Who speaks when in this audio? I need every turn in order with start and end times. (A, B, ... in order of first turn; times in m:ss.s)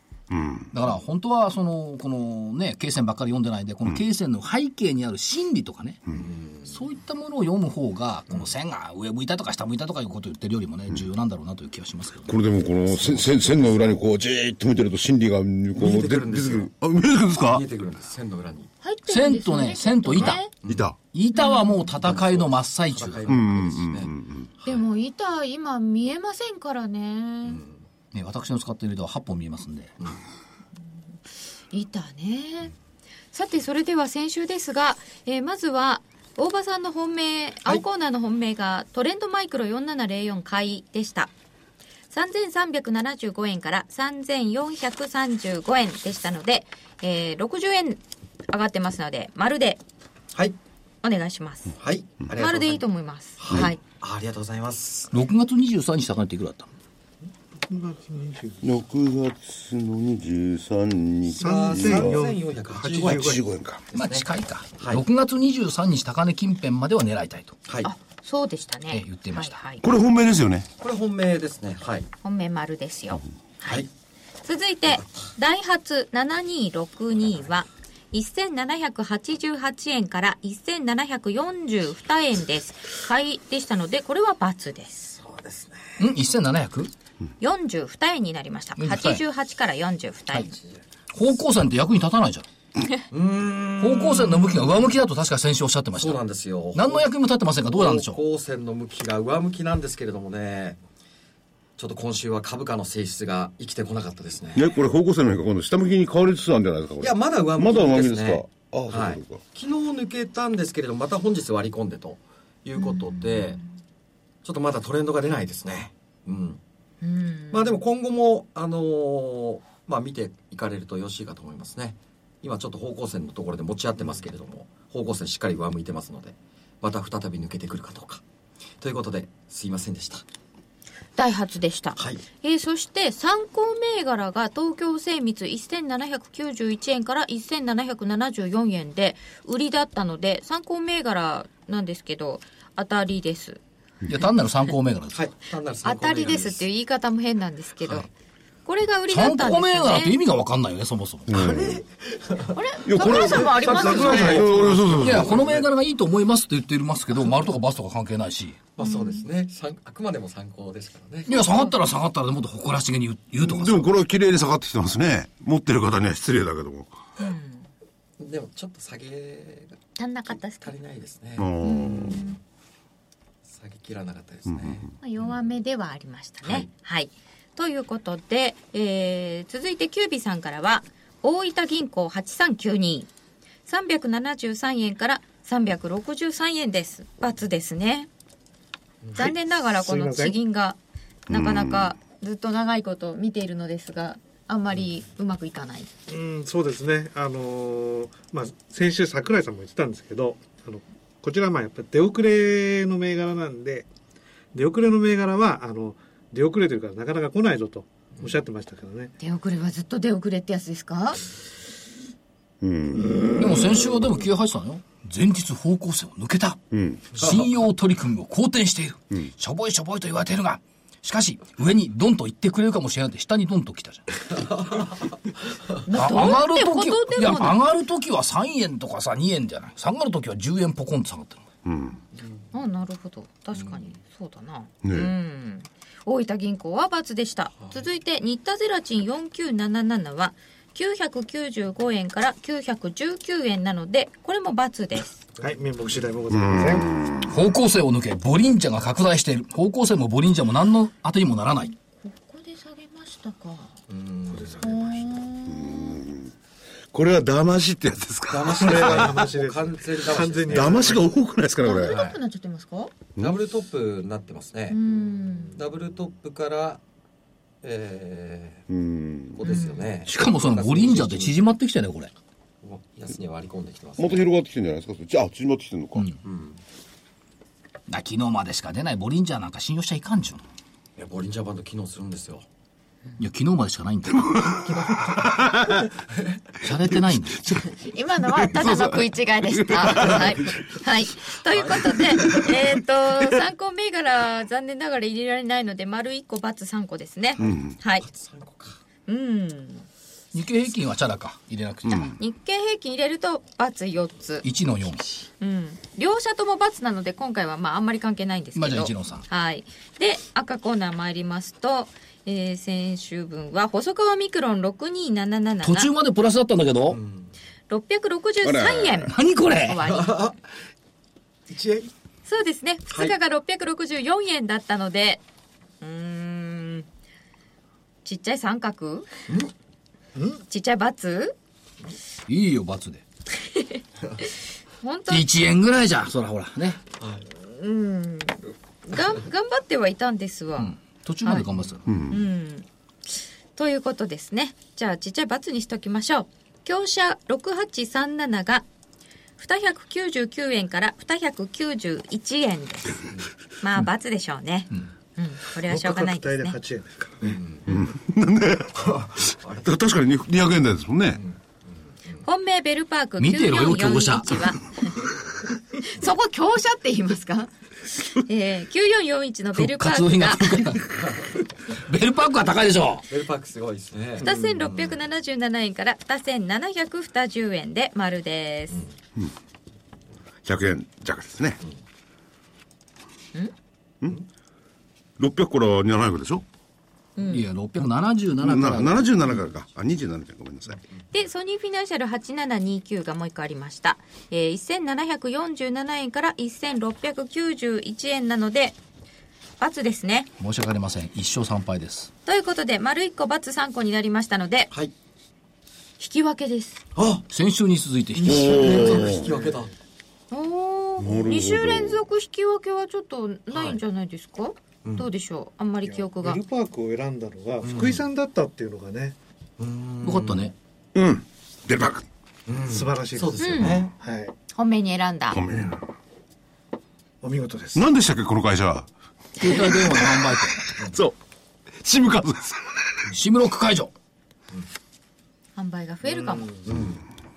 0:00.3-0:00.7 A
0:00.7-0:06.0 B
0:06.2-0:06.7 C
0:06.7-0:12.4 B
0:12.3-0:17.6 A
0:13.1-0:13.6 C
0:15.8-0:16.7 C
0:17.4-0:18.7 C
0:18.8-0:20.5 D
0:19.1-0:20.4 B
0:20.3-0:21.0 A
0:21.1-0:23.2 B
0:21.4-0:21.8 D
0:22.0-0:24.8 C
0:23.3-0:24.5 A
0:24.6-0:27.6 D
0:27.5-0:27.8 C
0:28.1-0:29.9 B
0:31.7-0:32.8 D
0:33.3-0:41.3 D
0:42.1-0:49.8 D
0:51.0-0:51.8 D
0:51.8-0:52.8 C
0:52.3-0:53.8 D
0:53.4-0:55.2 C
0:55.1-0:56.7 B
0:57.7-0:58.6 E
0:58.6-1:02.2 A
1:01.3-1:03.4 C
1:01.4-1:03.4 E
1:03.0-1:03.8 A
1:03.9-1:04.3 C
1:03.9-1:07.6 B
1:04.8-1:05.0 C
1:07.8-1:09.8 D
1:08.9-1:09.6 B
1:09.8-1:10.7 A
1:10.8-1:12.1 C
1:12.2-1:13.9 D
1:14.4-1:25.2 D
1:25.2-1:26.0 C
1:26.0-1:26.9 B
1:27.4-1:30.6 D
1:28.8-1:29.2 B
1:31.1-1:32.5 B
1:33.1-1:34.6 C
1:33.8-1:36.2 B
1:36.0-1:37.1 C
1:36.7-1:38.2 B
1:37.6-1:40.8 C
1:41.8-1:44.7 C
1:44.6-1:49.4 A
1:47.0-1:53.6 C
1:52.8-1:53.6 D
1:54.4-1:56.6 C
1:57.0-1:57.8 D
1:57.5-2:08.2 C
2:08.8-2:10.2 C
2:11.2-2:23.6 D
2:12.0-2:12.2 C
2:24.1-2:25.3 B
2:25.1-2:26.7 C
2:25.8-2:28.1 D
2:28.7-2:30.2 D
2:29.1-2:31.4 B
2:31.3-2:31.8 A
2:31.3-2:35.6 C
2:32.5-2:34.6 D
2:32.8-2:35.5 A
2:35.0-2:38.6 B
2:38.8-2:41.4 C
2:38.8-2:39.2 D
2:41.3-2:43.9 B
2:41.3-2:41.8 D
2:43.4-2:46.9 A
2:47.2-2:47.7 D
2:48.2-2:49.8 C
2:50.0-2:50.8 D
2:50.4-2:52.3 C
2:51.4-2:52.2 A
2:51.6-2:52.4 D
2:53.5-2:54.9 C
2:54.5-2:54.8 A
2:55.0-3:03.1 D
3:03.7-3:08.1 D
3:09.2-3:10.8 D
3:09.2-3:10.4 E
3:11.3-3:15.9 D
3:11.3-3:11.9 A
3:16.1-3:23.9 E
3:24.5-3:29.1 E
3:29.2-3:31.2 D
3:32.6-3:33.4 A
3:33.4-3:36.6 B
3:36.7-3:37.1 A
3:37.1-3:44.2 B
3:45.8-3:47.6 D
3:45.9-3:51.5 B
3:51.6-3:52.0 A
3:52.5-4:05.2 D
3:54.8-3:55.1 A
4:05.4-4:07.0 E
4:06.3-4:07.3 A
4:07.3-4:11.7 B
4:12.0-4:13.7 D
4:13.9-4:14.7 C
4:14.3-4:15.0 E
4:14.6-4:16.0 D
4:15.5-4:16.3 A
4:16.9-4:19.2 A
4:18.3-4:21.0 C
4:18.5-4:21.1 E
4:20.5-4:22.0 A
4:21.6-4:22.9 D
4:21.9-4:22.2 C
4:23.2-4:24.8 C
4:24.7-4:25.6 D
4:25.5-4:26.8 C
4:27.6-4:28.6 C
4:28.7-4:29.4 A
4:29.4-4:31.4 C
4:29.4-4:29.9 D
4:30.0-4:32.1 B
4:32.6-4:34.3 C
4:34.0-4:36.1 A
4:36.2-4:36.6 C
4:37.9-4:40.4 B
4:41.0-4:42.4 C
4:43.2-4:44.5 B
4:44.3-4:45.8 A
4:46.6-4:47.6 B
4:47.7-4:58.0 D
4:48.4-4:50.5 A
4:51.5-4:52.4 C
4:57.4-4:58.8 C
4:57.4-4:57.7 A
4:59.1-4:59.9 D
5:00.3-5:02.2 B
5:02.2-5:04.5 D
5:04.4-5:05.0 B
5:05.4-5:15.9 D
5:08.6-5:09.2 B
5:15.6-5:17.0 B
5:16.9-5:17.3 C
5:17.7-5:20.3 D
5:18.4-5:19.1 A
5:19.1-5:19.8 B
5:19.8-5:20.4 C
5:21.5-5:21.9 C
5:22.3-5:25.2 D
5:25.8-5:26.9 D
5:28.0-5:29.1 D
5:30.5-5:31.4 D
5:32.3-5:33.0 B
5:33.4-5:33.8 D
5:34.8-5:35.3 D
5:35.1-5:36.8 B
5:37.0-5:37.2 C
5:37.3-5:41.5 D
5:40.6-5:41.8 B
5:41.9-5:42.2 A
5:42.1-5:42.7 D
5:43.6-5:48.6 D
5:49.4-5:53.1 D
5:53.6-5:56.6 D
5:55.6-5:57.4 E
5:57.2-5:57.8 C
5:57.7-6:01.2 A
5:58.8-5:59.8 C
6:02.2-6:05.0 D
6:03.2-6:04.6 B
6:05.8-6:10.7 D
6:09.5-6:13.1 B
6:13.1-6:15.0 C
6:14.2-6:18.9 D
6:20.4-6:21.6 A
6:25.2-6:26.4 A
6:27.2-6:27.4 D
6:27.2-6:29.2 B
6:28.4-6:30.8 A
6:31.1-6:38.8 D
6:39.6-6:40.3 D
6:40.4-6:42.1 B
6:42.3-6:44.7 D
6:46.0-6:46.8 D
6:47.0-6:47.2 C
6:47.3-6:48.9 B
6:48.2-6:49.7 C
6:48.3-6:49.2 A
6:48.6-6:49.0 D
6:48.8-6:49.7 E
6:50.3-6:56.4 D
6:51.0-6:52.0 A
6:53.5-6:53.8 C
6:55.8-6:59.2 E
6:57.6-6:58.0 C
6:59.6-7:00.5 C
7:00.0-7:00.5 B
7:01.0-7:02.0 A
7:02.5-7:03.9 C
7:02.6-7:04.3 E
7:03.4-7:03.9 D
7:04.5-7:05.4 D
7:05.3-7:05.8 A
7:07.2-7:07.9 E
7:07.8-7:08.9 A
7:09.4-7:10.7 B
7:10.8-7:11.2 A
7:11.8-7:13.1 A
7:13.1-7:13.9 B
7:15.6-7:16.5 D
7:16.0-7:16.9 E
7:16.7-7:17.0 C